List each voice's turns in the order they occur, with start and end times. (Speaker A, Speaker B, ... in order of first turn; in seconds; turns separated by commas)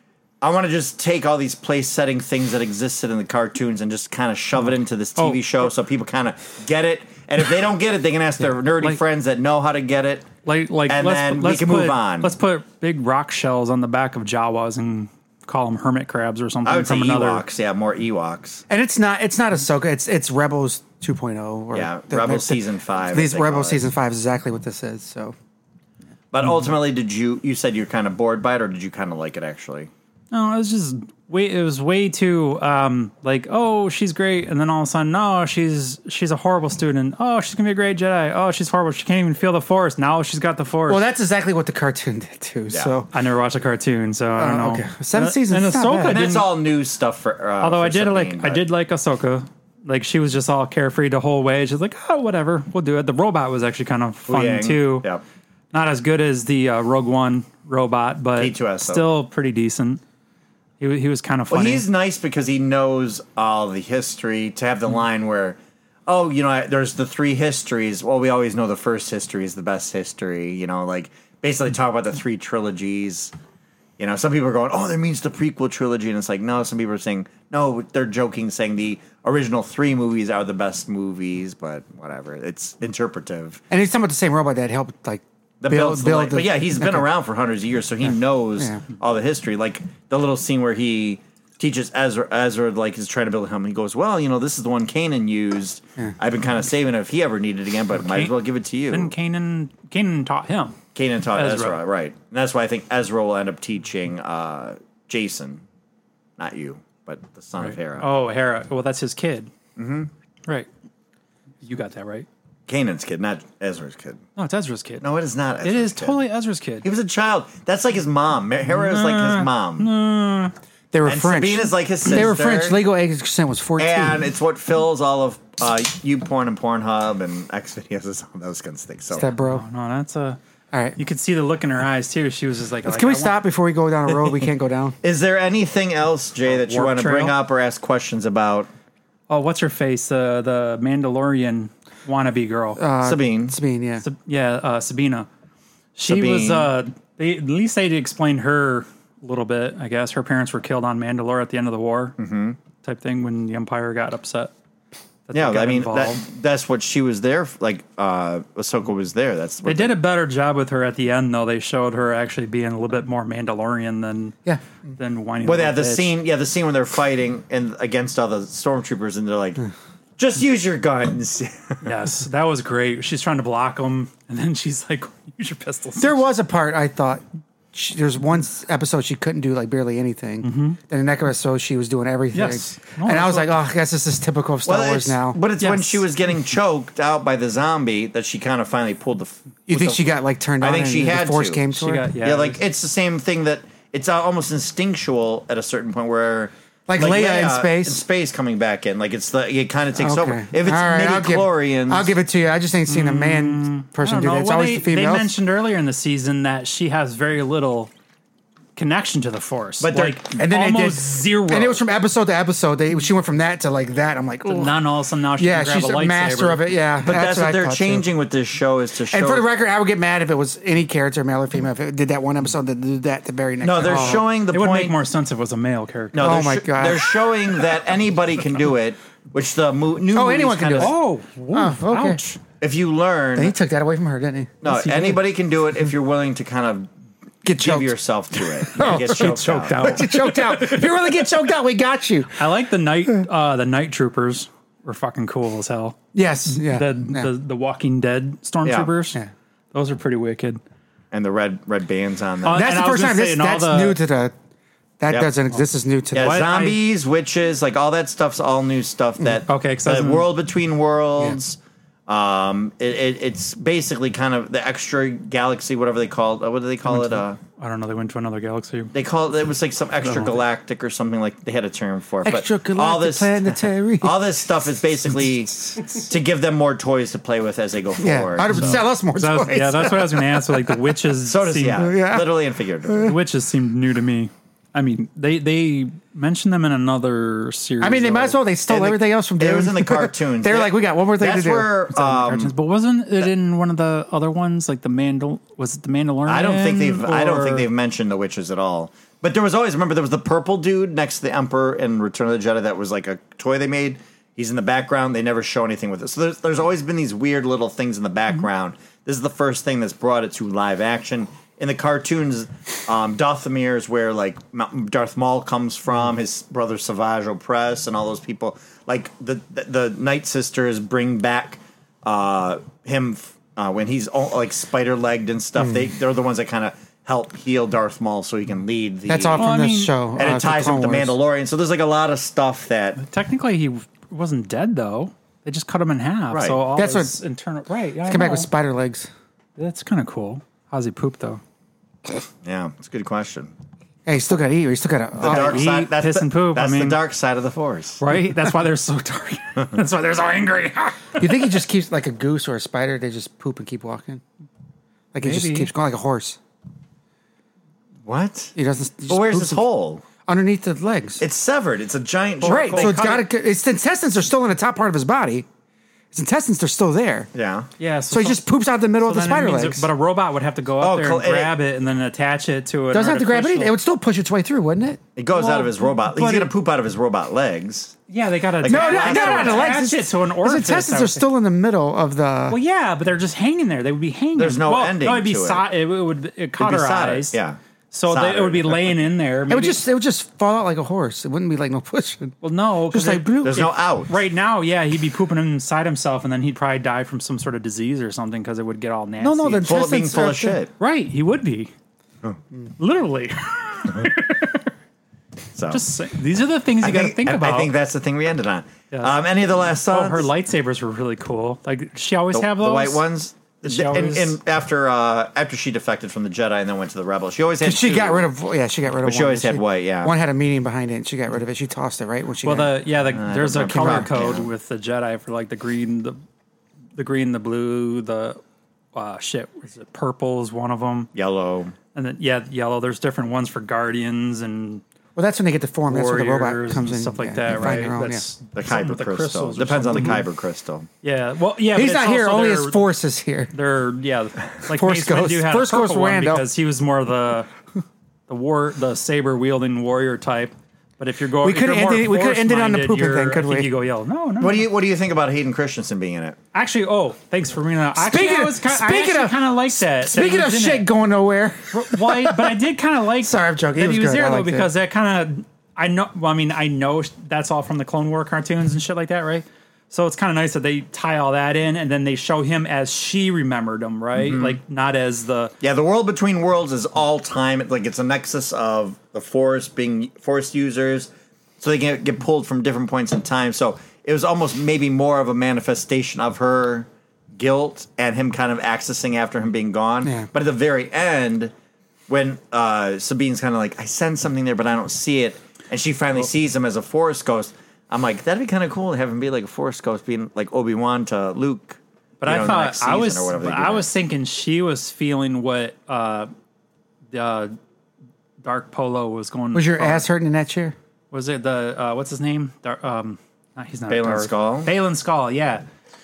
Speaker A: 0.4-10.3, Speaker B: 5.2-5.5, Speaker B: 10.4-17.4, Speaker A: 10.9-12.3, Speaker A: 16.6-18.6, Speaker C: 18.7-25.4, Speaker A: 21.7-23.8, Speaker A: 26.3-29.9, Speaker B: 30.3-41.0, Speaker C: 40.9-43.1, Speaker B: 43.1-46.5, Speaker C: 44.4-46.2, Speaker A: 46.1-48.6, Speaker B: 47.6-55.1, Speaker A: 54.3-55.2, Speaker B: 55.7-60.0, Speaker A: 58.4-59.0, Speaker B: 60.8-61.8, Speaker A: 61.5-73.3, Speaker A: 74.0-83.6, Speaker C: 83.7-87.0, Speaker A: 85.6-99.1, Speaker B: 98.0-98.3, Speaker B: 98.9-100.8, Speaker A: 100.9-105.6, Speaker B: 101.3-101.8, Speaker A: 106.4-108.1, Speaker B: 107.6-109.5, Speaker A: 109.8-110.1, Speaker B: 111.6-112.3, Speaker A: 112.7-114.2, Speaker B: 114.3-115.0, Speaker A: 115.0-116.2, Speaker B: 115.6-116.8, Speaker A: 116.8-119.9, Speaker B: 118.7-120.5, Speaker C: 120.9-124.2, Speaker A: 121.0-122.8, Speaker A: 123.8-129.3, Speaker C: 129.1-129.6, Speaker B: 129.4-130.4, Speaker C: 130.7-131.0, Speaker B: 131.0-133.4, Speaker C: 132.8-134.9, Speaker A: 135.0-138.7, Speaker B: 136.5-137.3, Speaker B: 139.3-142.8, Speaker C: 142.8-144.0, Speaker A: 143.0-143.6, Speaker B: 144.0-145.3, Speaker B: 145.9-152.2, Speaker A: 146.1-146.7, Speaker A: 152.2-152.6, Speaker B: 152.8-154.5, Speaker B: 155.3-156.2, Speaker A: 155.3-160.0, Speaker B: 159.6-164.4, Speaker B: 165.0-166.1, Speaker A: 165.4-169.6, Speaker A: 170.2-171.9, Speaker B: 171.8-176.2, Speaker C: 176.0-177.2, Speaker C: 177.7-185.4, Speaker B: 180.4-180.8, Speaker B: 182.3-183.5, Speaker A: 184.6-191.6, Speaker B: 185.6-186.0, Speaker C: 189.7-192.1, Speaker B: 191.7-192.6, Speaker A: 192.2-202.1, Speaker C: 196.9-198.0, Speaker C: 200.0-205.3, Speaker B: 202.9-207.9, Speaker B: 208.8-211.8, Speaker A: 209.8-210.2, Speaker C: 210.3-214.8, Speaker B: 214.4-216.7, Speaker C: 215.4-218.1, Speaker A: 217.0-219.5, Speaker C: 219.1-224.2, Speaker A: 223.6-224.9, Speaker B: 223.8-226.3, Speaker A: 226.1-230.9, Speaker C: 226.2-227.1, Speaker C: 230.1-230.9, Speaker B: 230.8-232.3, Speaker C: 231.5-232.2, Speaker A: 232.4-233.5, Speaker C: 233.4-234.5, Speaker A: 234.6-236.9, Speaker B: 234.6-235.2, Speaker C: 237.4-242.4, Speaker A: 237.6-240.0, Speaker B: 238.8-240.8, Speaker B: 242.3-246.0, Speaker C: 246.1-247.3, Speaker B: 246.5-249.2, Speaker A: 248.6-248.9, Speaker B: 249.7-250.6, Speaker A: 251.1-252.6, Speaker B: 252.4-254.0, Speaker C: 252.5-254.3, Speaker C: 255.0-256.4, Speaker B: 256.1-256.8, Speaker A: 256.1-267.4, Speaker B: 259.5-260.3, Speaker B: 266.9-268.9, Speaker A: 268.9-278.8, Speaker B: 270.0-270.4, Speaker C: 272.2-274.3, Speaker C: 278.0-280.8, Speaker B: 278.5-281.8, Speaker A: 281.2-283.2, Speaker C: 281.7-282.3, Speaker C: 282.9-283.1, Speaker B: 283.0-288.4, Speaker C: 287.8-292.5, Speaker A: 288.7-292.5, Speaker B: 292.3-297.7, Speaker A: 296.3-329.5, Speaker C: 329.1-331.1, Speaker B: 329.4-330.0, Speaker A: 330.2-333.0, Speaker B: 333.0-338.5, Speaker A: 336.3-336.6, Speaker C: 336.8-337.2, Speaker C: 338.1-339.1, Speaker B: 339.6-341.4, Speaker A: 342.4-343.5, Speaker C: 344.1-345.6, Speaker A: 345.2-348.0, Speaker B: 345.2-347.0, Speaker B: 348.0-351.6, Speaker C: 351.2-354.2, Speaker C: 355.1-356.4, Speaker B: 355.2-355.7, Speaker A: 358.0-358.5, Speaker C: 358.6-359.6, Speaker A: 359.1-360.0, Speaker C: 360.2-361.2, Speaker A: 361.2-363.2, Speaker C: 362.4-365.4, Speaker C: 366.1-367.3, Speaker A: 367.3-367.7, Speaker B: 367.8-368.4, Speaker C: 368.1-369.9, Speaker B: 369.0-373.8, Speaker A: 370.8-371.5, Speaker C: 372.9-375.0, Speaker A: 375.1-378.0, Speaker B: 375.3-375.9, Speaker C: 376.0-376.5, Speaker B: 378.1-381.2, Speaker A: 378.6-379.8, Speaker C: 378.7-382.6, Speaker B: 382.5-387.4, Speaker A: 384.4-385.6, Speaker A: 386.6-389.0, Speaker B: 387.9-389.8, Speaker C: 389.5-392.4, Speaker B: 392.4-399.8, Speaker C: 392.9-393.7, Speaker A: 393.4-394.1, Speaker C: 399.2-400.6, Speaker A: 399.6-400.7, Speaker B: 400.8-401.7, Speaker B: 402.8-404.7, Speaker A: 405.5-405.8, Speaker B: 405.7-407.7, Speaker A: 406.8-410.3, Speaker B: 408.9-413.0, Speaker A: 412.3-418.3, Speaker B: 413.6-414.4, Speaker C: 417.6-422.8, Speaker A: 419.0-420.1, Speaker B: 422.4-426.2, Speaker A: 423.0-424.5, Speaker C: 423.6-424.1, Speaker B: 426.9-428.4, Speaker B: 428.9-431.1, Speaker A: 431.1-431.7, Speaker B: 431.9-434.8, Speaker C: 435.1-438.2, Speaker B: 435.9-440.2, Speaker A: 438.5-440.9, Speaker B: 441.0-442.8, Speaker C: 441.7-443.5, Speaker B: 443.5-447.5, Speaker C: 444.7-446.4, Speaker B: 448.3-454.6, Speaker C: 451.4-453.7, Speaker A: 454.4-456.4, Speaker B: 456.5-460.9, Speaker C: 457.9-462.5, Speaker B: 461.7-475.5, Speaker C: 463.2-464.7, Speaker A: 474.1-474.6, Speaker A: 475.6-491.5, Speaker A: 492.1-503.9, Speaker B: 502.2-506.3, Speaker B: 507.1-507.6, Speaker B: 508.4-510.0, Speaker C: 509.5-510.7, Speaker B: 511.1-515.6, Speaker A: 513.9-514.7